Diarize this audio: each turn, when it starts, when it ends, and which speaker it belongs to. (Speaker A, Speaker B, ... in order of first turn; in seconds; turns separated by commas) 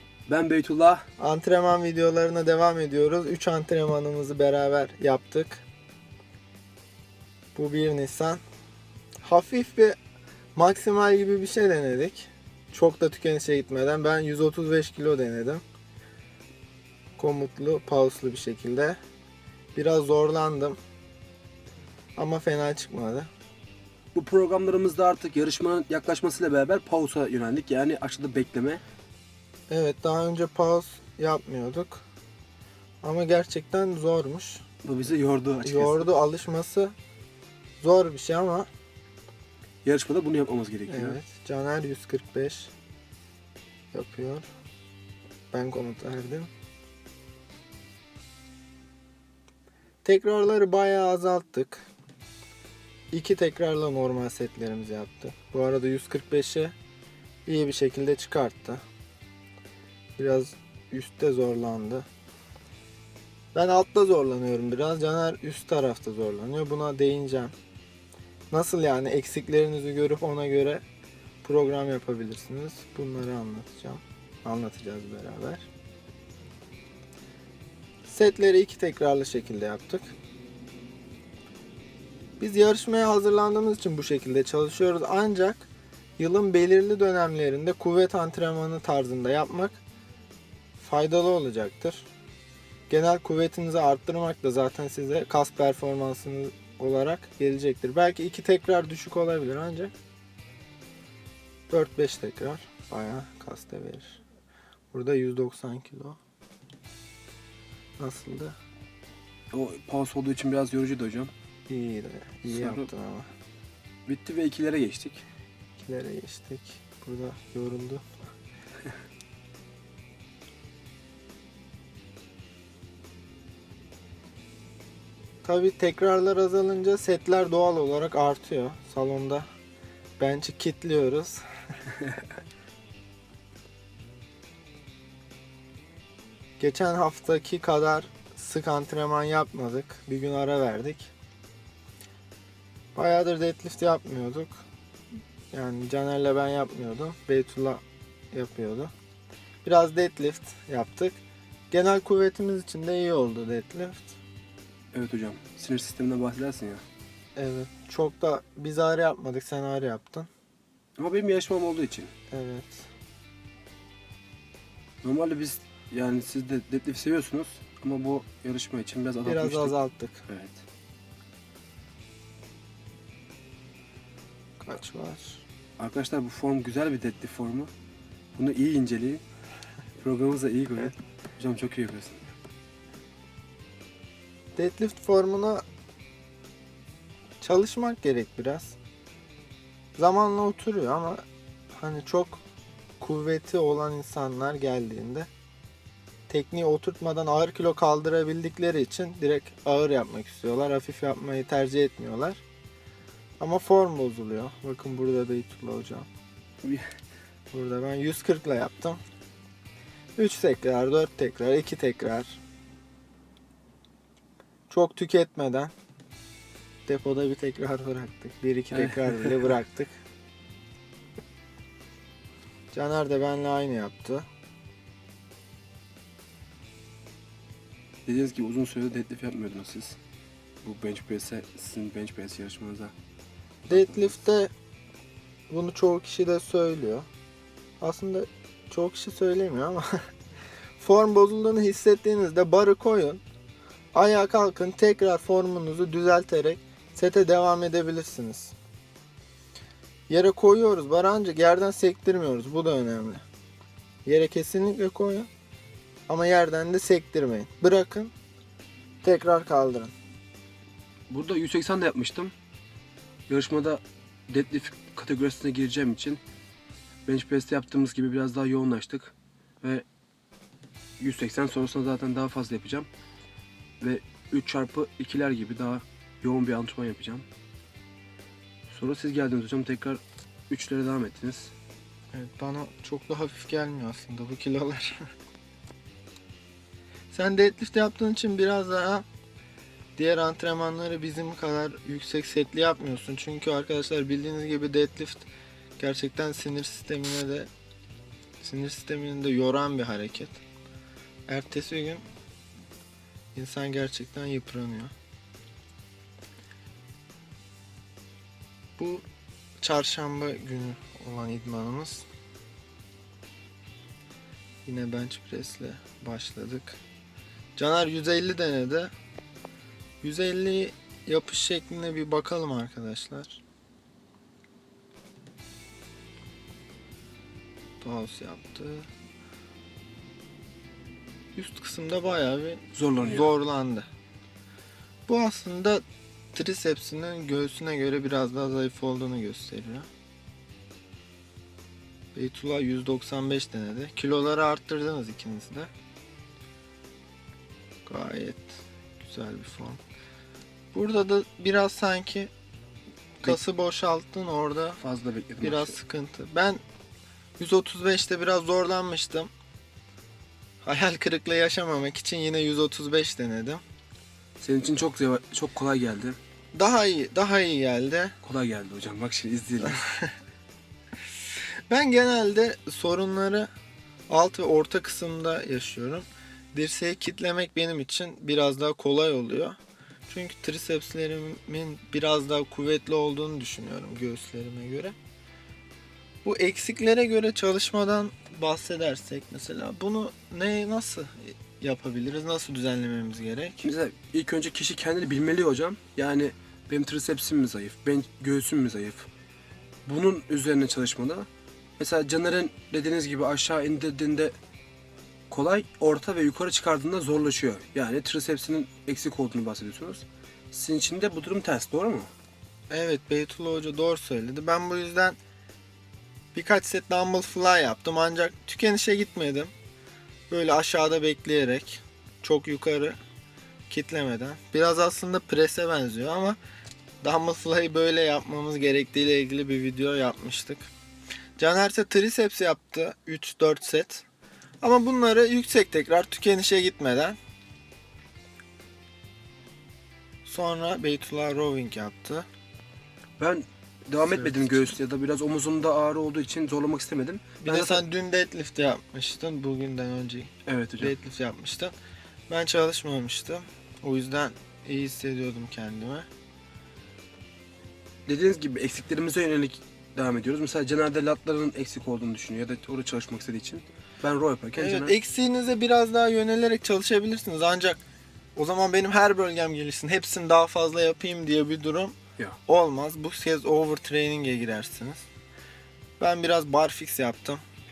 Speaker A: 0.3-1.1, Speaker B: 1.2-5.6, Speaker B: 7.5-8.4, Speaker B: 9.2-10.0, Speaker B: 10.6-15.6, Speaker B: 17.2-19.0, Speaker B: 19.7-20.8, Speaker B: 22.2-23.3, Speaker A: 24.1-28.8, Speaker B: 29.7-32.0, Speaker B: 33.0-34.6, Speaker A: 34.8-36.1, Speaker B: 35.6-36.9, Speaker B: 37.8-38.7, Speaker A: 39.8-41.2, Speaker B: 40.9-42.7, Speaker B: 43.9-44.5, Speaker B: 45.5-46.5, Speaker B: 50.0-51.9, Speaker B: 53.1-56.7, Speaker B: 57.5-58.8, Speaker B: 60.2-62.1, Speaker B: 63.5-67.5, Speaker B: 68.5-70.8, Speaker B: 71.4-75.7, Speaker B: 78.0-80.1, Speaker B: 82.4-85.7, Speaker B: 86.2-89.8, Speaker B: 90.8-92.1, Speaker B: 92.9-99.9, Speaker B: 101.7-104.2, Speaker B: 104.9-106.2, Speaker B: 108.0-108.5, Speaker A: 109.5-111.3, Speaker B: 111.7-113.3, Speaker A: 112.5-112.9, Speaker A: 114.1-115.2, Speaker B: 115.8-118.0, Speaker B: 125.4-129.5, Speaker B: 130.2-131.4, Speaker B: 136.6-141.1, Speaker B: 142.9-144.6, Speaker B: 145.5-148.9, Speaker B: 149.6-154.2, Speaker A: 154.9-156.8, Speaker B: 157.3-160.3, Speaker A: 161.0-162.1, Speaker B: 162.3-162.9, Speaker A: 165.0-169.7, Speaker B: 169.2-170.2, Speaker A: 170.3-170.6, Speaker B: 174.6-175.4, Speaker A: 175.8-177.7, Speaker A: 178.3-179.2, Speaker A: 180.0-182.2, Speaker B: 184.6-185.6, Speaker B: 187.4-188.8, Speaker B: 190.0-192.4, Speaker B: 193.0-195.3, Speaker B: 196.3-202.4, Speaker B: 203.4-206.1, Speaker B: 207.5-209.0, Speaker B: 210.2-212.4, Speaker B: 214.7-215.7, Speaker B: 216.9-220.0, Speaker A: 218.7-219.5, Speaker B: 222.7-224.3, Speaker A: 228.1-230.0, Speaker A: 230.6-232.9, Speaker A: 233.6-234.2, Speaker B: 233.7-234.5, Speaker B: 235.5-237.1, Speaker B: 237.8-239.9, Speaker B: 240.8-243.2, Speaker B: 243.9-248.5, Speaker B: 250.1-253.2, Speaker B: 254.0-255.3, Speaker B: 256.1-258.1, Speaker B: 259.0-259.9, Speaker A: 261.1-262.3, Speaker A: 263.3-266.2, Speaker A: 267.1-269.8, Speaker A: 271.0-272.9, Speaker A: 273.8-277.2, Speaker A: 278.7-281.5, Speaker B: 282.1-285.0, Speaker B: 287.1-289.0, Speaker B: 290.0-295.3, Speaker B: 295.8-297.5, Speaker B: 298.4-300.4, Speaker B: 301.3-302.0, Speaker B: 303.3-304.9, Speaker B: 308.8-309.0, Speaker B: 309.6-312.1, Speaker B: 314.6-316.8, Speaker B: 317.6-318.9, Speaker B: 320.0-323.4, Speaker B: 327.8-328.9, Speaker B: 331.3-333.9, Speaker A: 332.7-333.3, Speaker B: 335.1-335.8, Speaker B: 336.3-339.9, Speaker B: 342.1-345.7, Speaker B: 347.9-349.8, Speaker B: 350.7-352.3, Speaker B: 353.2-354.8, Speaker A: 354.8-355.8, Speaker B: 355.4-356.6, Speaker B: 357.4-359.3, Speaker B: 360.6-363.6, Speaker A: 364.4-366.2, Speaker B: 366.5-368.1, Speaker A: 368.2-369.8, Speaker B: 369.6-370.1, Speaker B: 371.7-373.5, Speaker B: 374.1-379.6, Speaker B: 380.1-384.9, Speaker B: 386.2-393.7, Speaker A: 393.6-399.1, Speaker A: 399.9-404.3, Speaker A: 405.3-412.1, Speaker B: 412.7-415.2, Speaker B: 416.3-419.5, Speaker B: 420.3-423.0, Speaker B: 423.7-426.4, Speaker B: 427.0-430.7, Speaker B: 431.4-434.0, Speaker B: 434.6-437.2, Speaker B: 440.2-442.2, Speaker A: 443.2-447.8, Speaker B: 444.0-444.7, Speaker B: 447.4-451.7, Speaker A: 450.4-450.9, Speaker B: 452.3-456.1, Speaker A: 458.1-464.9, Speaker B: 464.6-467.8, Speaker B: 468.4-475.1, Speaker B: 476.0-477.4